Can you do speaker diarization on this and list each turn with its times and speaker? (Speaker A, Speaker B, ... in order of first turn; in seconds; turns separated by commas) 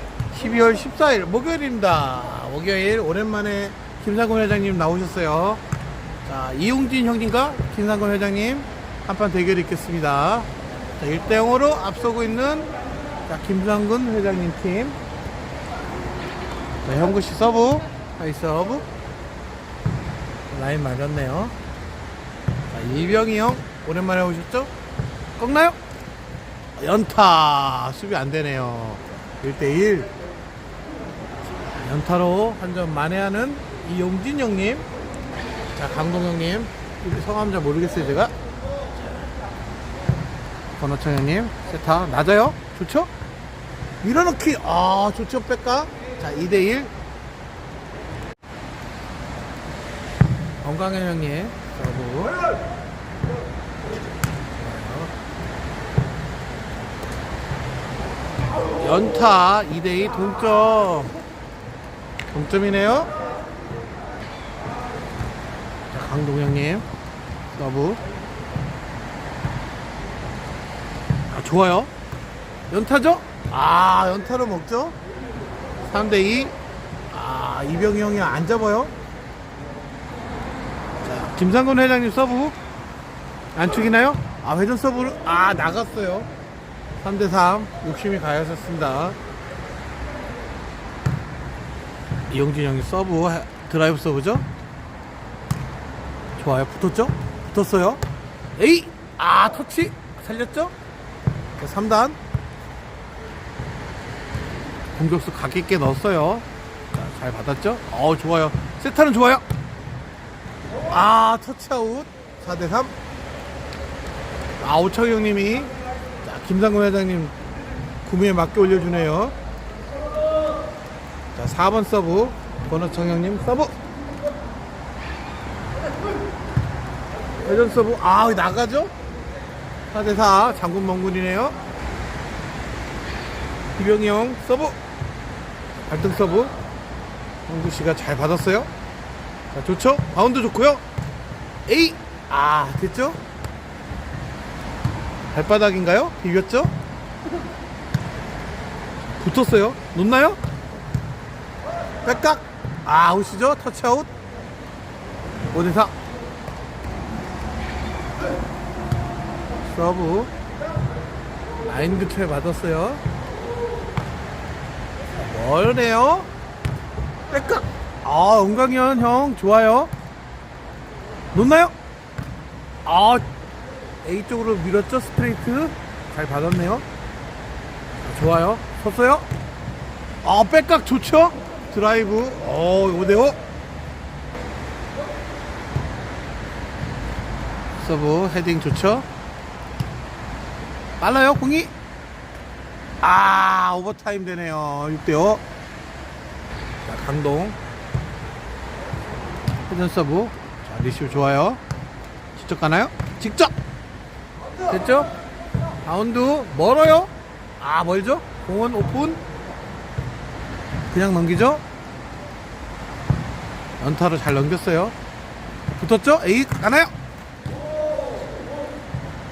Speaker A: 0.3-5.6, Speaker A: 6.2-12.7, Speaker A: 13.3-15.0, Speaker A: 16.8-18.9, Speaker A: 20.5-21.5, Speaker A: 22.7-24.7, Speaker A: 25.4-25.8, Speaker A: 26.8-30.1, Speaker A: 31.5-34.9, Speaker A: 35.8-38.3, Speaker A: 40.8-43.1, Speaker A: 44.0-46.9, Speaker A: 50.6-52.4, Speaker A: 54.5-55.1, Speaker A: 58.8-61.1, Speaker A: 62.3-63.1, Speaker A: 65.9-66.8, Speaker A: 67.5-68.0, Speaker A: 71.3-71.9, Speaker A: 72.7-75.0, Speaker A: 75.8-76.5, Speaker A: 77.1-78.9, Speaker A: 81.0-82.5, Speaker A: 83.5-86.3, Speaker A: 87.0-89.2, Speaker A: 92.3-94.5, Speaker A: 96.4-98.0, Speaker A: 98.5-100.7, Speaker A: 101.6-102.2, Speaker A: 105.0-109.4, Speaker A: 110.9-112.9, Speaker A: 114.6-117.3, Speaker A: 118.0-119.3, Speaker A: 121.3-123.7, Speaker A: 127.4-128.9, Speaker A: 129.9-131.6, Speaker A: 133.8-134.8, Speaker A: 135.9-136.5, Speaker A: 137.5-138.7, Speaker A: 139.5-140.8, Speaker A: 141.7-143.2, Speaker A: 145.3-146.7, Speaker A: 149.2-150.4, Speaker A: 152.0-154.1, Speaker A: 155.5-155.9, Speaker A: 159.6-160.3, Speaker A: 161.6-163.0, Speaker A: 165.2-166.3, Speaker A: 167.3-169.9, Speaker A: 171.3-171.7, Speaker A: 172.9-173.3, Speaker A: 174.0-176.8, Speaker A: 178.0-179.3, Speaker A: 180.2-183.4, Speaker A: 187.8-189.1, Speaker A: 191.0-191.7, Speaker A: 193.0-195.4, Speaker A: 196.8-197.6, Speaker A: 199.7-201.6, Speaker A: 202.3-203.6, Speaker A: 204.6-205.1, Speaker A: 205.8-209.2, Speaker A: 210.9-211.6, Speaker A: 213.8-214.9, Speaker A: 215.8-216.9